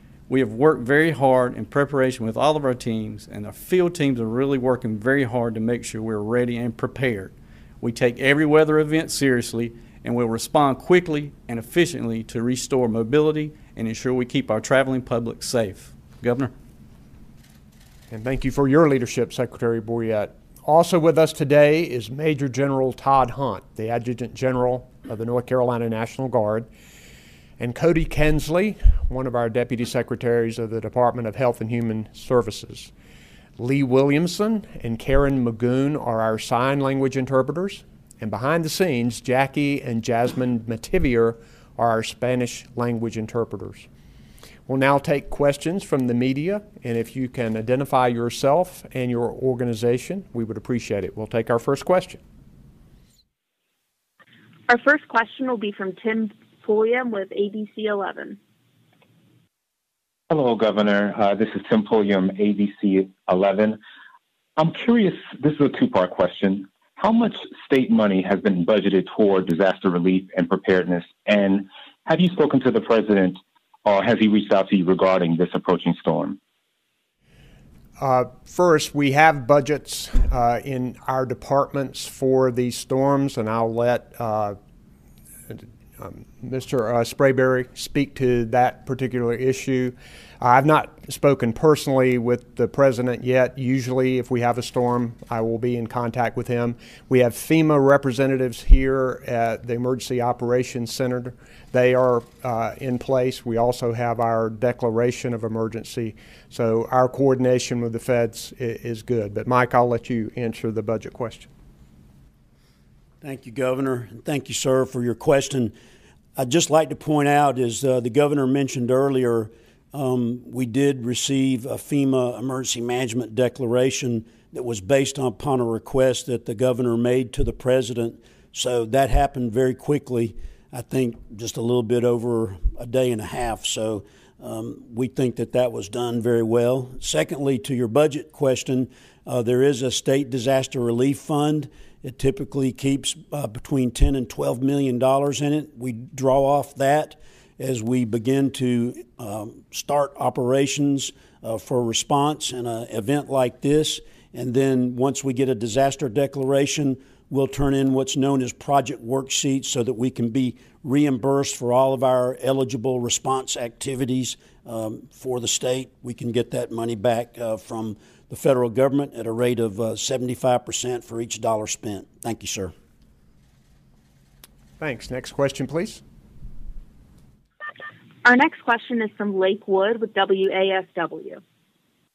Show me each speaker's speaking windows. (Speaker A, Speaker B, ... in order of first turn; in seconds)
Speaker A: 0.3-16.5
Speaker B: 18.1-26.7, 27.6-32.9, 33.6-43.9, 44.7-52.2, 78.0-84.6, 85.5-111.5, 174.8-176.0
Speaker C: 54.7-58.4, 178.2-181.4
Speaker D: 60.3-63.8, 64.6-76.4
Speaker E: 113.2-115.7, 116.3-172.7